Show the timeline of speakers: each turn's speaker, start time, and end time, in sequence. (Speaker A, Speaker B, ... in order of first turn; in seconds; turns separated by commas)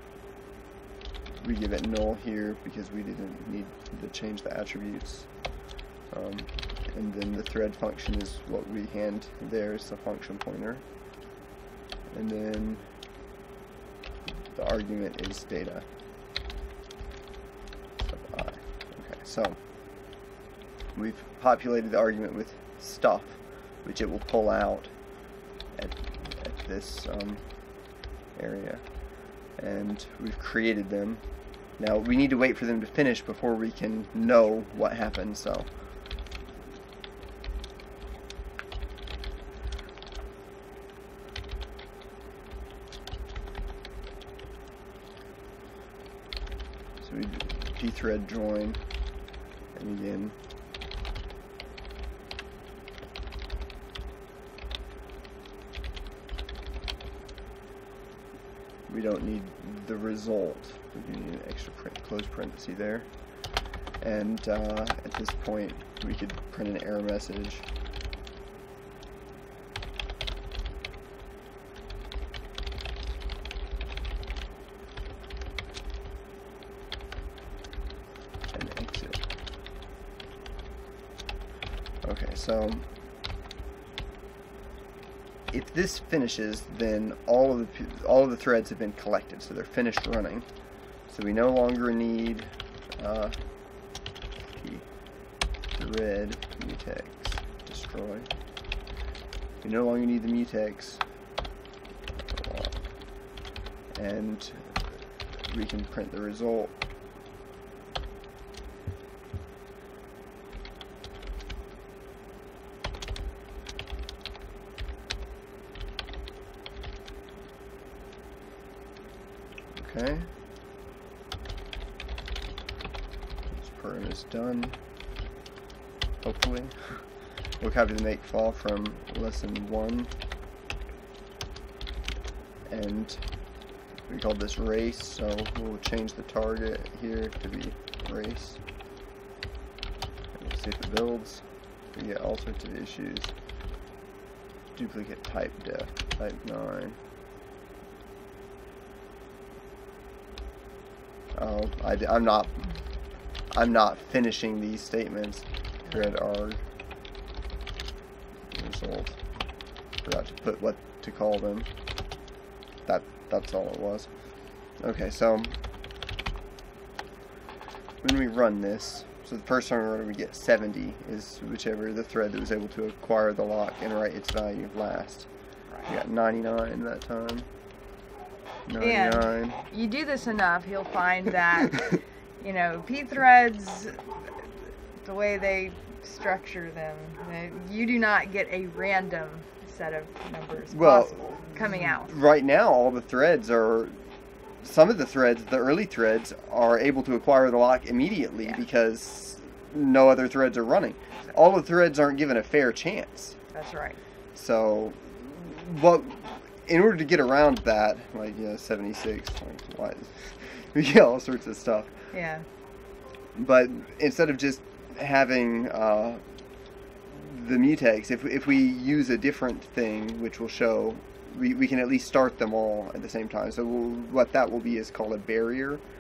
Speaker A: 1.4-5.3, Speaker A: 6.1-10.8, Speaker A: 12.1-12.9, Speaker A: 14.5-15.8, Speaker A: 18.0-19.6, Speaker A: 20.9-24.9, Speaker A: 25.8-28.9, Speaker A: 29.6-31.2, Speaker A: 31.8-35.7, Speaker A: 47.0-48.9, Speaker A: 49.7-50.4, Speaker A: 58.9-67.7, Speaker A: 78.5-79.3, Speaker A: 82.0-82.9, Speaker A: 85.5-90.5, Speaker A: 91.1-94.9, Speaker A: 95.7-98.3, Speaker A: 99.6-101.0, Speaker A: 102.1-102.8, Speaker A: 103.9-106.8, Speaker A: 119.8-120.3, Speaker A: 123.5-124.8, Speaker A: 126.2-130.1, Speaker A: 132.7-133.3, Speaker A: 134.1-138.6, Speaker A: 140.3-143.3, Speaker A: 144.8-147.0, Speaker A: 151.3-152.7, Speaker A: 153.5-156.6, Speaker B: 155.8-156.1, Speaker A: 158.5-159.2, Speaker A: 160.0-161.7, Speaker A: 162.8-165.6, Speaker A: 168.0-175.3, Speaker A: 175.8-177.5, Speaker A: 178.7-179.6, Speaker B: 178.8-184.1, Speaker B: 185.0-192.2, Speaker A: 190.7-193.9, Speaker A: 194.6-203.4, Speaker B: 203.5-204.0, Speaker A: 204.3-211.9, Speaker B: 212.1-212.5, Speaker A: 213.3-216.2, Speaker A: 217.1-225.8